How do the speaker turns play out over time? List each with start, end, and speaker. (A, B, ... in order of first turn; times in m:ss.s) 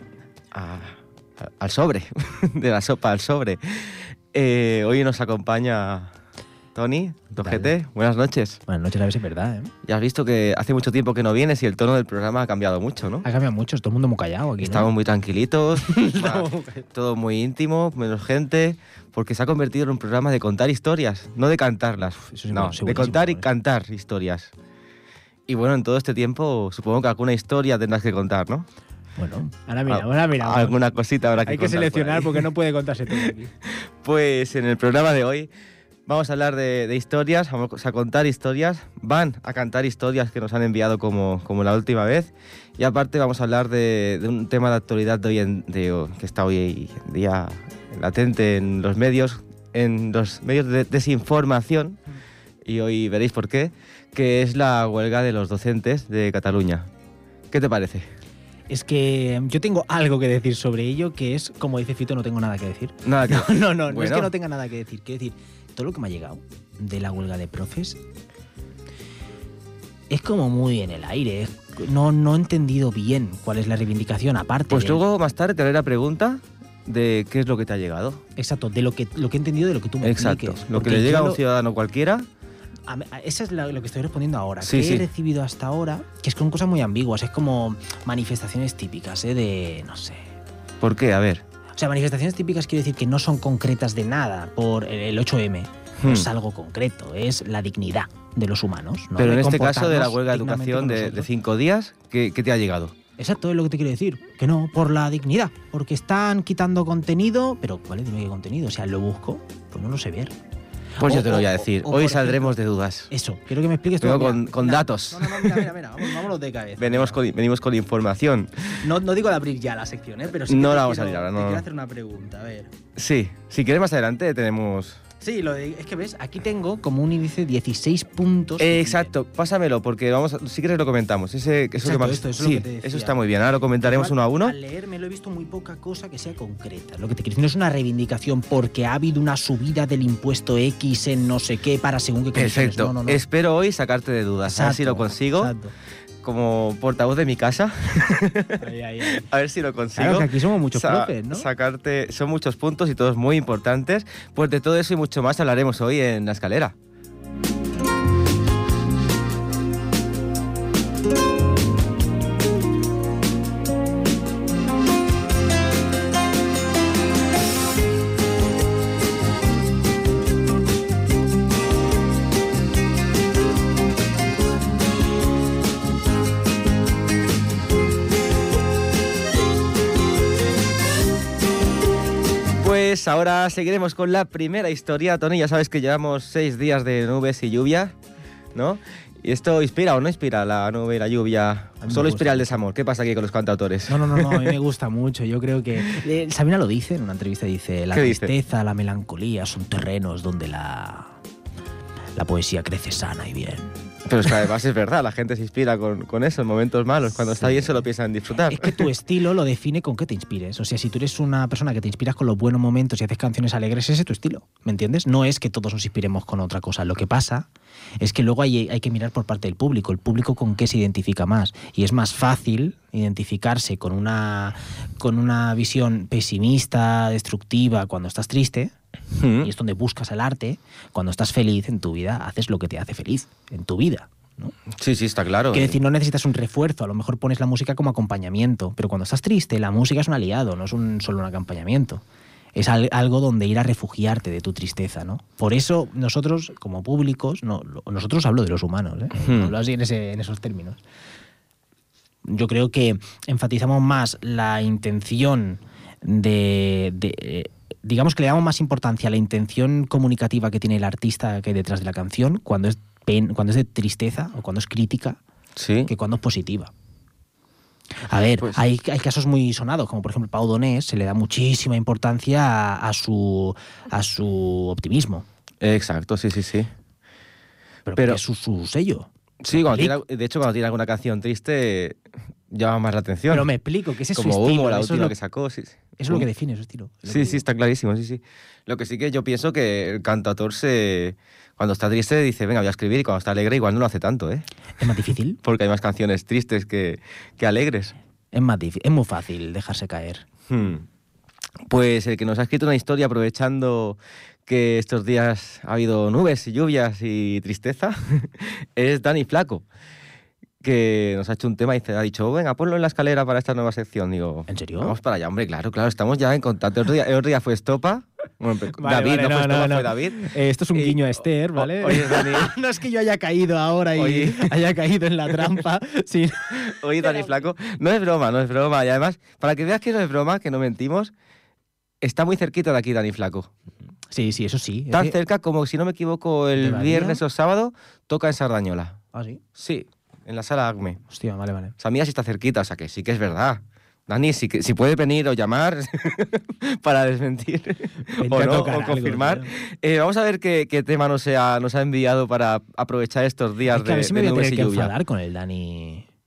0:00.5-0:06.1 A
0:06.8-0:08.6 A
0:07.4-0:07.7 B
0:08.7-0:09.7 B
0:09.9-0:13.2 A
0:13.2-0:14.9 B
0:14.6-0:24.5 A
0:15.8-0:16.9 B
0:22.3-0:23.5 B
0:25.5-0:28.7 A
0:29.2-0:30.8 B
0:29.9-0:32.4 A
0:31.4-0:33.5 B
0:33.1-0:35.5 A
0:36.1-0:52.0 A
0:52.6-0:56.9 A
0:57.5-0:58.1 A
0:58.7-1:08.0 B
1:03.0-1:04.3 A
1:10.1-1:15.0 B
1:14.7-1:18.2 A
1:18.4-1:21.4 B
1:20.0-1:22.3 A
1:22.9-1:30.3 B
1:24.6-1:25.1 A
1:30.8-1:31.4 A
1:31.8-1:41.3 B
1:36.0-1:36.3 A
1:39.2-1:43.0 A
1:43.2-1:50.4 B
1:51.0-1:52.6 B
1:51.0-1:53.1 A
1:53.1-1:57.2 B
1:54.0-1:55.7 A
1:56.8-1:58.9 A
1:58.8-2:02.7 B
2:00.5-2:01.6 A
2:03.0-2:05.0 A
2:05.2-2:09.1 B
2:08.6-2:14.6 A
2:11.8-2:13.2 B
2:13.8-2:23.2 B
2:22.4-2:25.5 A
2:24.5-2:25.7 B
2:26.2-2:36.7 A
2:28.6-2:29.2 B
2:30.0-2:31.5 B
3:02.6-3:08.0 A
3:08.6-3:14.6 A
3:11.8-3:12.6 B
3:13.9-3:21.2 B
3:17.9-3:18.3 A
3:22.2-3:23.8 B
3:24.1-3:28.8 A
3:27.4-3:27.8 B
3:28.5-3:37.5 B
3:38.0-3:48.7 B
3:49.1-3:49.5 A
3:49.4-3:54.6 B
3:54.7-3:55.8 A
3:55.5-4:02.0 B
4:02.6-4:10.8 B
4:09.2-4:09.5 A
4:12.3-4:25.2 B
4:25.6-4:25.9 A
4:25.9-4:26.7 B
4:28.1-4:35.2 B
4:35.6-4:36.7 A
4:37.9-4:40.0 B
4:39.4-4:43.5 A
4:43.3-4:45.1 B
4:44.2-4:46.3 A
4:46.0-4:47.4 B
4:47.1-4:54.4 A
4:54.8-4:55.4 B
4:55.4-4:58.0 A
4:58.3-5:00.3 B
5:00.5-5:00.9 A
5:01.7-5:09.6 A
5:10.6-5:20.2 A
5:14.5-5:15.0 B
5:18.8-5:27.3 B
5:20.7-5:22.5 A
5:24.0-5:24.5 A
5:26.6-5:31.1 A
5:32.0-5:33.5 A
5:34.1-5:35.2 B
5:34.9-5:39.0 A
5:36.6-5:37.2 B
5:39.1-5:39.4 B
5:39.6-5:41.0 A
5:41.1-5:41.8 B
5:41.8-5:54.9 A
5:48.2-5:49.5 B
5:53.7-5:56.1 B